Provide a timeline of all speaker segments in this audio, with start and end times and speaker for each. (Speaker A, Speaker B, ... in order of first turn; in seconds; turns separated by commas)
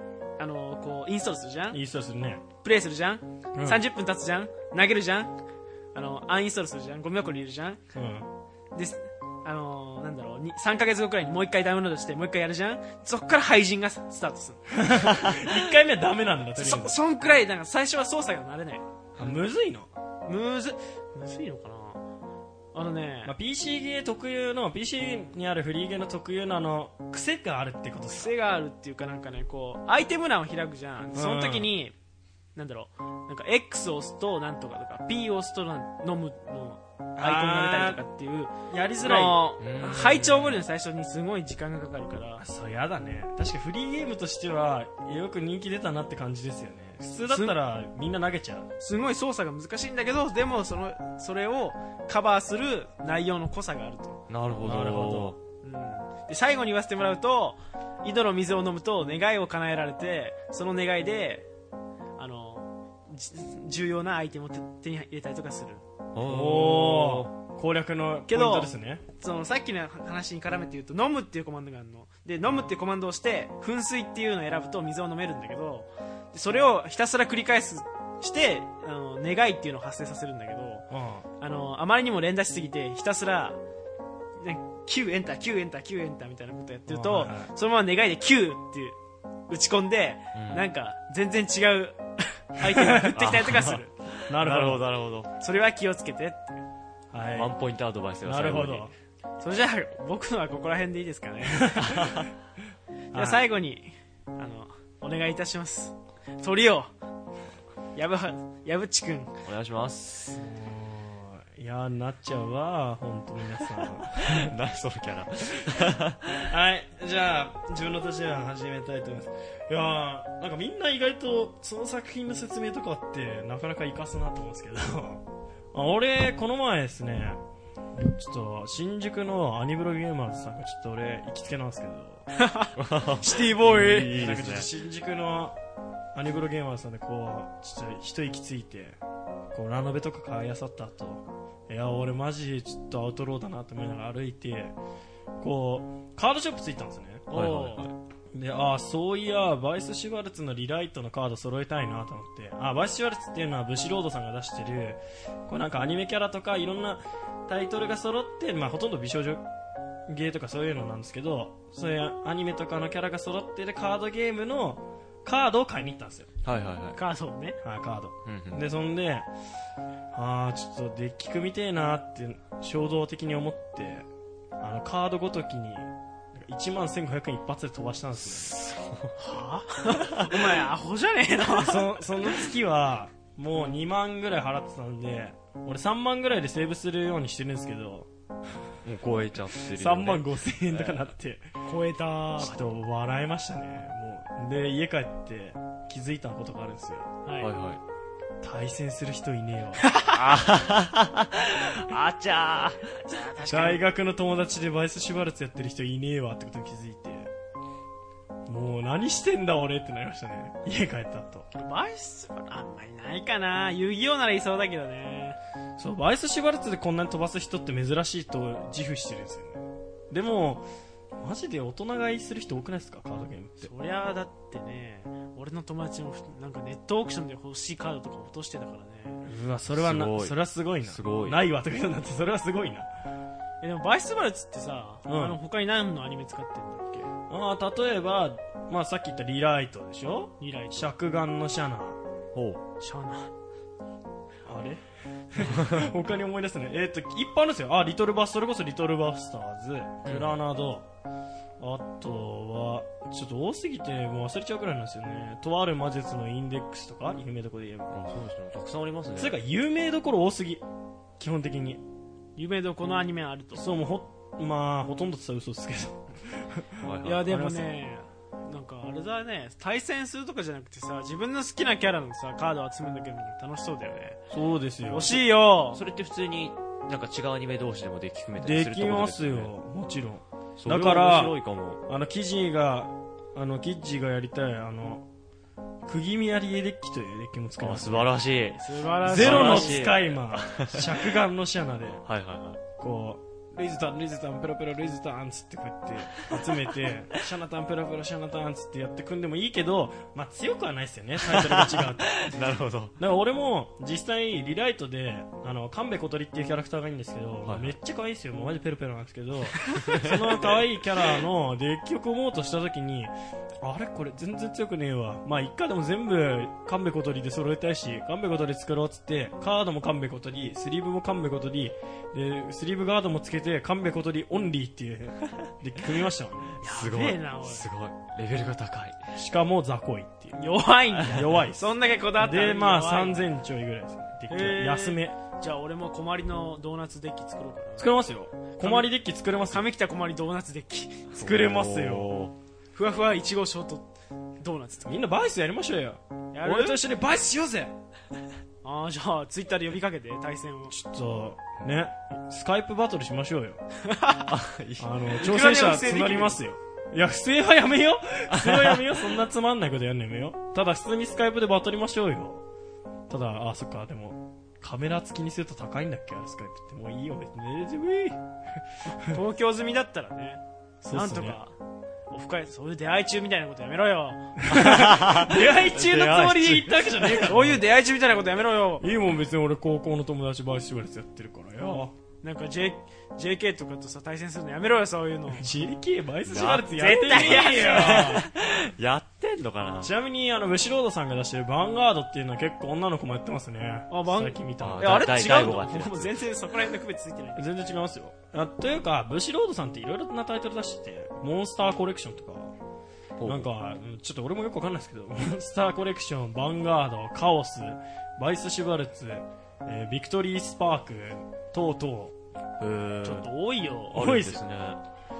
Speaker A: 0.4-1.8, Speaker B: 1.7-2.4, Speaker A: 2.6-5.3, Speaker B: 3.5-3.8, Speaker A: 5.9-7.8, Speaker B: 7.9-8.3, Speaker A: 8.7-14.7, Speaker B: 14.7-16.9, Speaker A: 16.6-18.8, Speaker B: 19.2-19.9, Speaker A: 20.3-22.0, Speaker A: 22.7-23.3, Speaker B: 23.2-28.3, Speaker A: 28.0-31.9, Speaker B: 31.1-31.7, Speaker A: 32.5-42.4, Speaker B: 37.2-38.0, Speaker B: 38.7-39.4, Speaker C: 39.6-40.6, Speaker B: 42.4-48.7, Speaker A: 47.2-47.5, Speaker A: 48.8-54.2, Speaker C: 54.3-55.4, Speaker B: 54.6-55.4, Speaker A: 55.6-61.5, Speaker A: 62.2-65.8, Speaker C: 66.1-67.3, Speaker B: 66.2-69.0, Speaker A: 68.3-80.8, Speaker B: 80.9-81.2, Speaker A: 81.4-83.6, Speaker A: 84.4-89.0, Speaker B: 86.9-87.5, Speaker A: 89.5-93.9, Speaker C: 90.3-90.6, Speaker B: 92.8-93.1, Speaker C: 93.2-95.3, Speaker B: 94.3-94.8, Speaker A: 95.4-96.6, Speaker B: 97.1-97.5, Speaker C: 97.3-98.9, Speaker B: 98.2-98.9, Speaker A: 99.4-102.0, Speaker B: 101.5-102.3, Speaker B: 103.1-103.4, Speaker A: 103.1-106.9, Speaker A: 107.9-109.3, Speaker C: 109.4-110.4, Speaker B: 110.3-114.5, Speaker C: 114.2-116.4, Speaker B: 116.3-127.4, Speaker B: 127.9-132.3, Speaker A: 132.4-132.7, Speaker C: 132.7-134.7, Speaker A: 133.2-134.0, Speaker B: 133.6-135.6, Speaker B: 136.1-139.0, Speaker B: 139.5-144.8, Speaker B: 145.4-147.7, Speaker C: 147.3-147.9, Speaker A: 147.3-147.8, Speaker B: 148.3-159.4, Speaker B: 160.1-166.3, Speaker C: 166.4-167.0, Speaker A: 166.9-167.6, Speaker B: 167.6-169.3, Speaker C: 168.2-168.6, Speaker B: 170.1-174.1, Speaker B: 174.6-178.5, Speaker C: 178.2-179.1, Speaker A: 179.2-182.4, Speaker B: 181.6-188.1, Speaker C: 188.8-191.1, Speaker B: 189.7-191.4, Speaker A: 191.6-192.6, Speaker B: 192.4-197.1, Speaker A: 197.2-197.5, Speaker C: 197.4-197.8, Speaker B: 198.4-199.9, Speaker C: 200.1-203.2, Speaker A: 203.1-203.8, Speaker B: 203.4-207.3, Speaker B: 208.5-211.5, Speaker A: 211.5-215.4, Speaker B: 215.8-220.7, Speaker B: 221.2-223.7, Speaker A: 223.6-229.2, Speaker B: 229.2-232.9, Speaker C: 229.7-231.4, Speaker A: 233.6-237.1, Speaker B: 235.1-235.4, Speaker B: 237.3-242.0, Speaker A: 240.4-240.9, Speaker C: 242.3-242.6, Speaker A: 242.8-243.3, Speaker B: 244.4-250.8, Speaker C: 245.5-245.8, Speaker C: 250.0-250.3, Speaker B: 251.6-257.9, Speaker C: 257.9-259.4, Speaker B: 259.2-260.6, Speaker B: 261.2-261.8, Speaker A: 262.4-263.7, Speaker B: 263.5-267.7, Speaker C: 266.8-267.2, Speaker A: 267.0-274.2, Speaker B: 274.3-275.2, Speaker A: 274.9-275.8, Speaker C: 275.7-279.5, Speaker B: 278.4-285.1, Speaker C: 280.6-281.8, Speaker B: 285.8-288.1, Speaker C: 287.6-290.0, Speaker A: 288.6-289.8, Speaker B: 289.0-292.0, Speaker C: 290.6-290.9, Speaker C: 292.0-292.6, Speaker B: 292.8-302.3, Speaker C: 301.3-303.0, Speaker B: 303.0-326.6, Speaker C: 307.4-307.7, Speaker C: 309.7-310.6, Speaker A: 326.6-327.7, Speaker C: 326.6-329.0, Speaker B: 329.1-330.4, Speaker A: 330.3-333.2, Speaker C: 331.0-331.4, Speaker B: 331.1-335.2, Speaker A: 334.3-337.9, Speaker B: 337.8-339.6, Speaker A: 338.6-338.9, Speaker A: 339.5-341.1, Speaker C: 341.1-342.3, Speaker B: 341.2-342.1, Speaker A: 342.7-343.9, Speaker A: 344.4-344.9, Speaker B: 344.9-347.7, Speaker A: 346.3-346.8, Speaker A: 348.6-350.7, Speaker B: 350.7-353.6, Speaker A: 353.9-354.3, Speaker C: 354.3-355.0, Speaker B: 354.8-362.4, Speaker A: 355.1-356.4, Speaker C: 358.3-359.2, Speaker B: 363.1-368.2, Speaker A: 369.0-371.5, Speaker B: 370.8-371.4, Speaker A: 372.1-374.4, Speaker B: 374.4-377.6, Speaker C: 374.5-377.2, Speaker A: 377.0-378.9, Speaker B: 378.8-381.9, Speaker A: 382.2-385.5, Speaker B: 385.3-388.3, Speaker C: 386.2-389.9, Speaker A: 386.7-388.2, Speaker B: 389.8-395.1, Speaker A: 393.9-397.5, Speaker C: 394.6-396.2, Speaker B: 397.4-402.5, Speaker C: 403.2-403.5, Speaker B: 403.2-412.1, Speaker C: 412.6-413.2, Speaker A: 413.0-414.1, Speaker C: 413.9-414.8, Speaker B: 413.9-414.4